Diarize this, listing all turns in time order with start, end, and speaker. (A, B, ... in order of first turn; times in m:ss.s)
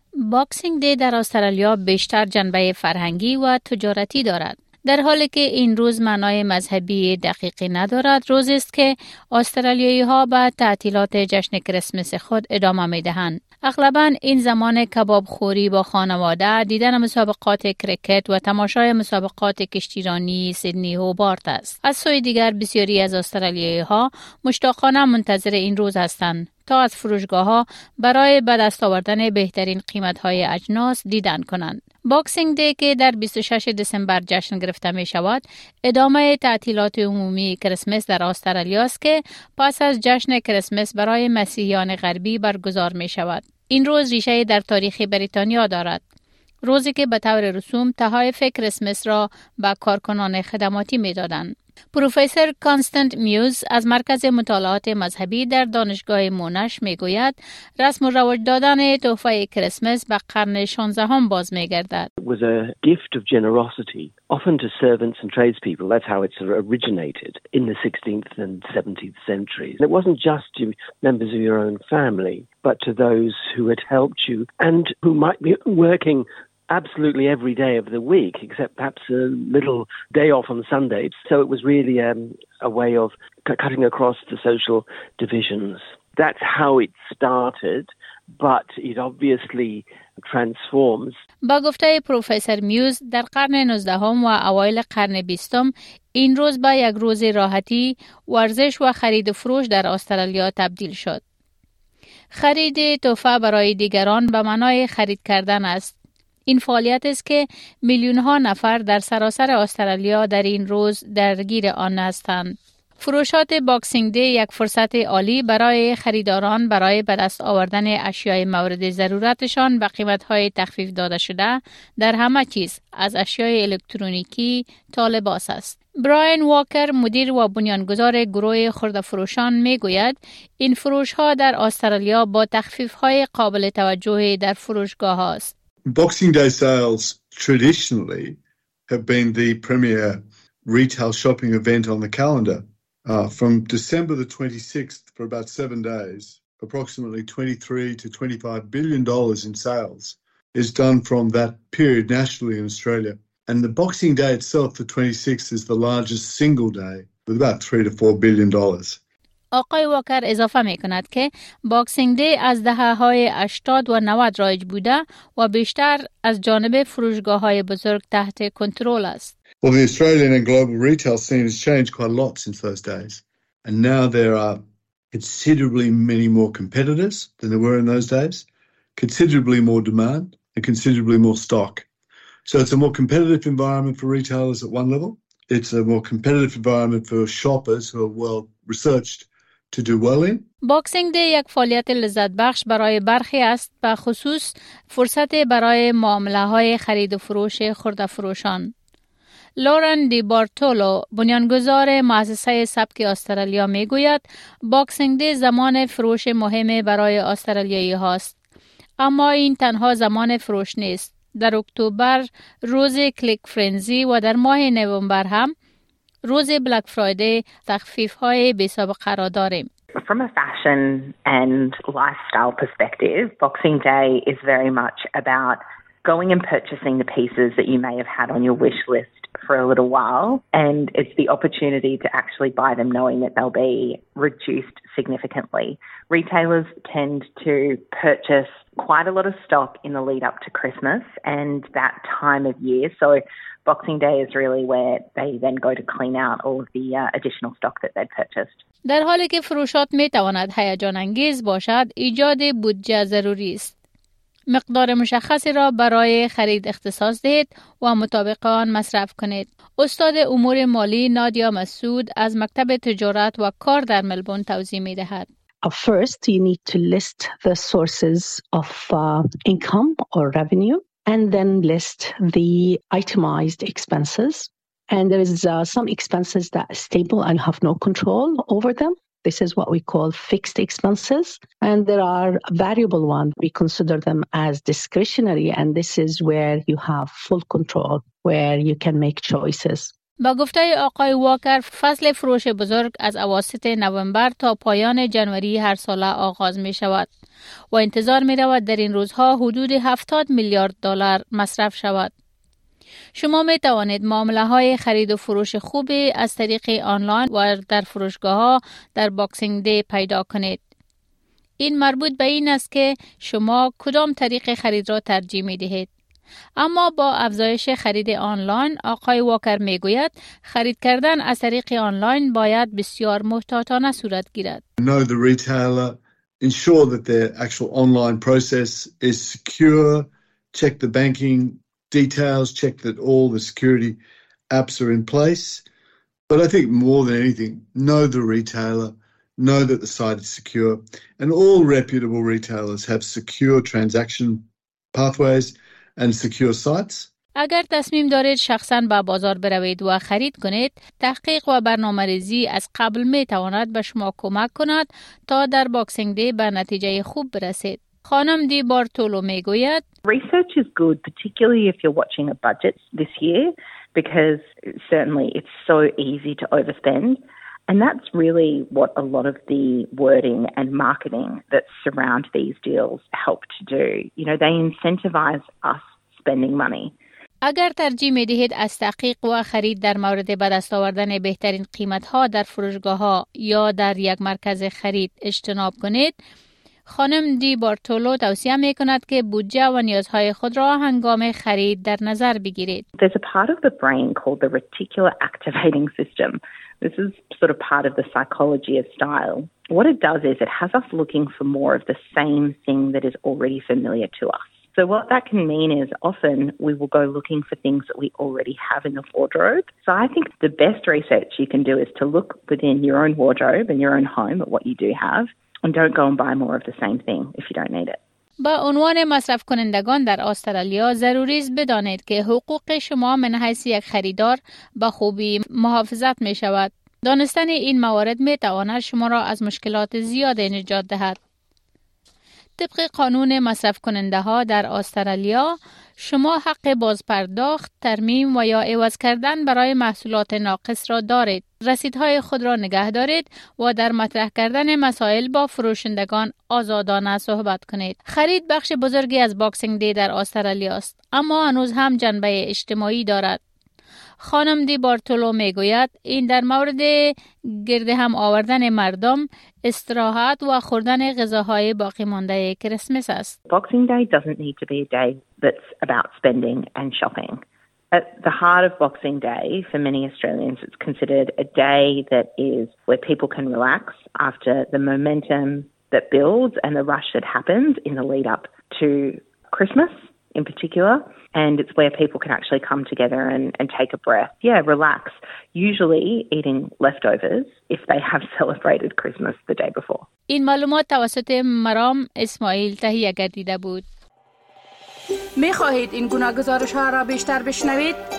0:00.2-0:46.0 A
0:46.6-1:02.1 A
1:02.2-1:31.2 B
1:31.4-1:41.2 A
1:42.4-1:46.0 A
1:46.5-2:15.5 A
2:15.9-2:18.4 C
2:18.9-2:39.0 C
2:39.5-2:49.3 A
2:49.6-2:54.6 C
2:55.1-2:58.4 C
2:59.0-3:01.8 C
3:02.4-3:10.4 C
3:10.6-3:18.7 A
3:19.6-3:28.3 A
3:29.0-3:35.5 A
3:36.2-3:39.7 A
3:40.0-4:08.6 D
4:08.8-4:13.7 A
4:14.5-4:25.3 A
4:25.6-4:49.9 E
4:50.2-4:57.1 A
4:57.7-5:02.1 A
5:03.2-5:10.6 A
5:11.6-5:15.9 A
5:16.6-5:24.6 A
5:24.8-5:34.0 C
5:34.5-5:35.6 C
5:36.3-5:47.1 C
5:47.4-5:59.8 A
6:00.1-6:16.9 D
6:17.4-6:26.1 A
6:26.9-6:32.8 A
6:33.0-6:58.0 D
6:58.4-7:11.2 A
7:12.6-7:33.4 A
7:34.2-7:43.4 A
7:43.5-7:47.4 D
7:47.9-8:10.1 D
8:10.3-8:13.8 A
8:15.4-8:17.9 F